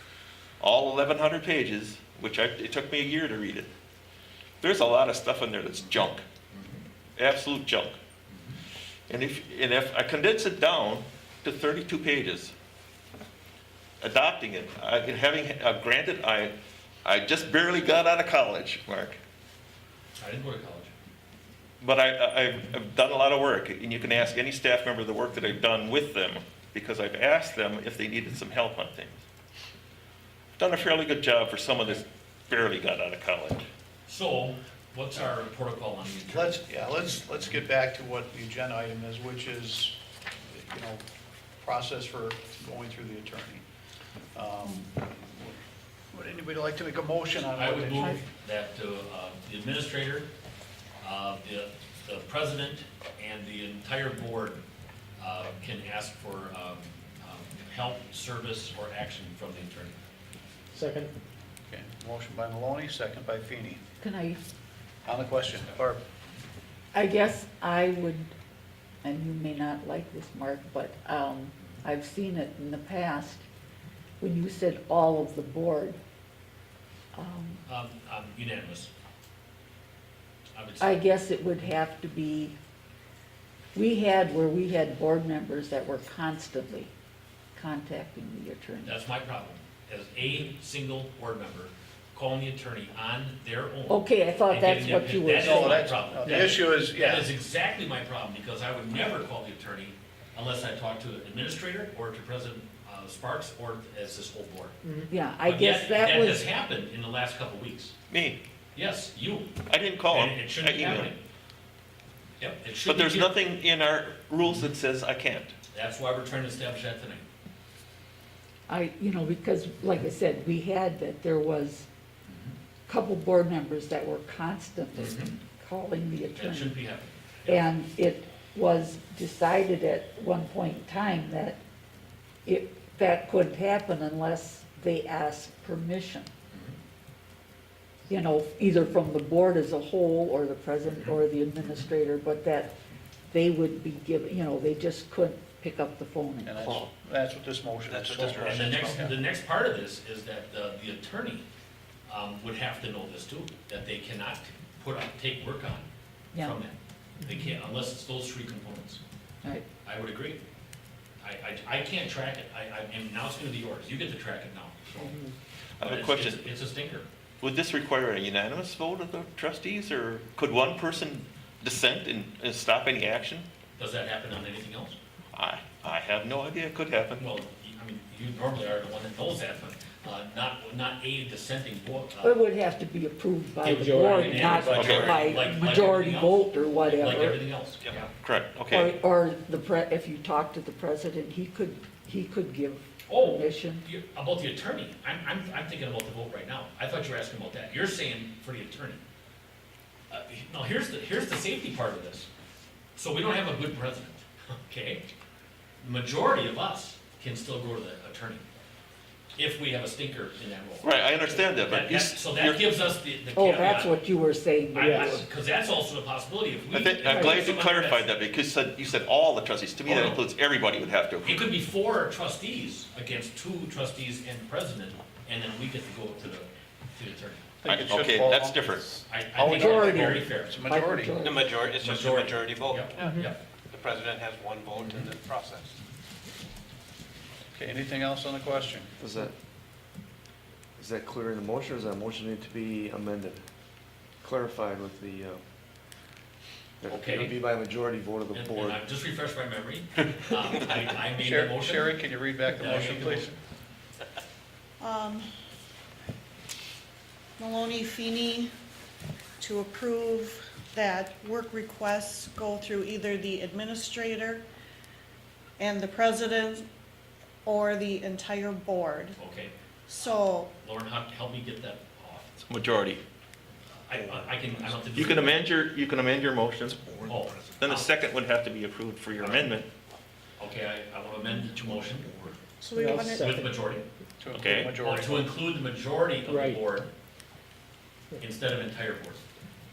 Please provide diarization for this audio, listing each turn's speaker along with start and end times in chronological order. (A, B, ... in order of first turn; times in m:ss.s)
0:00.6-0:03.7 A
0:04.6-0:06.2 A
0:06.5-0:06.8 B
0:07.2-0:08.0 A
0:08.3-0:08.6 B
0:09.1-0:12.5 A
0:14.0-0:16.5 A
0:17.0-0:19.2 A
0:20.2-0:20.9 B
0:21.8-0:29.2 A
0:30.6-0:33.6 A
0:34.1-0:36.6 B
0:36.3-0:40.0 C
0:40.7-0:41.0 C
0:41.6-0:43.6 C
0:44.3-0:44.9 C
0:46.2-0:48.2 C
0:47.6-0:50.3 B
0:51.0-0:54.6 B
0:55.2-1:00.0 B
1:00.7-1:01.1 D
1:01.7-1:03.8 C
1:04.0-1:04.4 E
1:05.0-1:06.0 C
1:06.9-1:08.3 E
1:09.0-1:13.4 E
1:14.2-1:16.0 E
1:17.2-1:17.6 E
1:17.7-1:18.9 B
1:20.6-1:21.0 B
1:20.8-1:22.6 E
1:23.8-1:26.9 E
1:27.6-1:28.9 E
1:28.8-1:44.8 B
1:33.9-1:36.4 E
1:35.5-1:37.3 C
1:45.1-1:46.5 E
1:45.4-1:48.0 B
1:48.1-1:48.4 A
1:48.8-1:51.2 B
1:49.7-1:51.1 A
1:52.4-1:53.4 B
1:52.9-1:55.5 A
1:54.4-1:54.7 B
1:55.7-1:57.2 B
1:58.7-2:01.9 E
2:02.3-2:02.6 B
2:02.9-2:06.8 E
2:05.0-2:05.4 B
2:06.4-2:07.7 B
2:07.5-2:11.6 E
2:12.4-2:16.3 E
2:16.5-2:16.8 B
2:18.1-2:22.7 E
2:20.9-2:21.2 B
2:23.3-2:26.9 E
2:26.4-2:29.2 C
2:27.8-2:28.8 F
2:28.4-2:31.4 B
2:32.1-2:35.9 B
2:36.4-2:39.0 B
2:39.8-2:40.4 B
2:41.2-2:45.2 B
2:45.8-2:46.4 A
2:45.8-2:47.1 B
2:47.4-2:53.5 A
2:53.8-2:55.0 B
2:55.3-2:57.3 A
2:57.2-3:02.3 B
3:02.2-3:07.4 E
3:03.6-3:08.1 B
3:03.7-3:04.9 D
3:04.8-3:05.2 A
3:07.8-3:08.0 F
3:08.2-3:08.9 A
3:08.7-3:13.8 E
3:13.1-3:19.0 B
3:20.1-3:22.3 B
3:23.0-3:25.0 B
3:25.8-3:28.4 B
3:29.4-3:34.0 B
3:30.8-3:32.7 A
3:33.4-3:35.2 E
3:34.8-3:38.1 B
3:34.8-3:35.2 D
3:36.7-3:41.4 A
3:37.1-3:37.4 E
3:39.8-3:40.2 B
3:41.2-3:47.5 B
3:47.6-3:48.7 C
3:47.7-3:49.0 A
3:49.1-3:50.6 B
3:49.3-3:51.1 C
3:49.4-3:51.5 E
3:51.2-3:53.2 F
3:51.6-3:53.4 B
3:53.0-3:53.3 D
3:53.7-3:55.7 F
3:54.8-3:55.1 B
3:57.6-3:58.9 C
3:59.0-3:59.4 G
4:00.8-4:03.4 G
4:04.2-4:05.4 G
4:06.8-4:08.8 G
4:06.9-4:07.4 B
4:08.3-4:12.0 B
4:11.2-4:13.3 C
4:12.5-4:13.3 B
4:14.8-4:15.3 H
4:17.4-4:18.5 H
4:19.4-4:24.4 H
4:25.6-4:26.6 H
4:27.4-4:29.1 H
4:29.2-4:29.5 B
4:29.9-4:30.5 H
4:30.5-4:32.3 B
4:32.5-4:33.0 A
4:33.8-4:35.4 B
4:34.9-4:37.0 A
4:36.9-4:37.2 F
4:37.1-4:37.9 B
4:37.6-4:39.7 A
4:39.2-4:39.5 B
4:40.4-4:42.2 B
4:41.8-4:42.3 F
4:42.6-4:43.2 H
4:42.7-4:43.6 D
4:43.2-4:43.8 B
4:44.2-4:45.3 C
4:44.4-4:44.8 A
4:44.8-4:46.9 B
4:46.3-4:46.6 D
4:48.2-4:49.2 B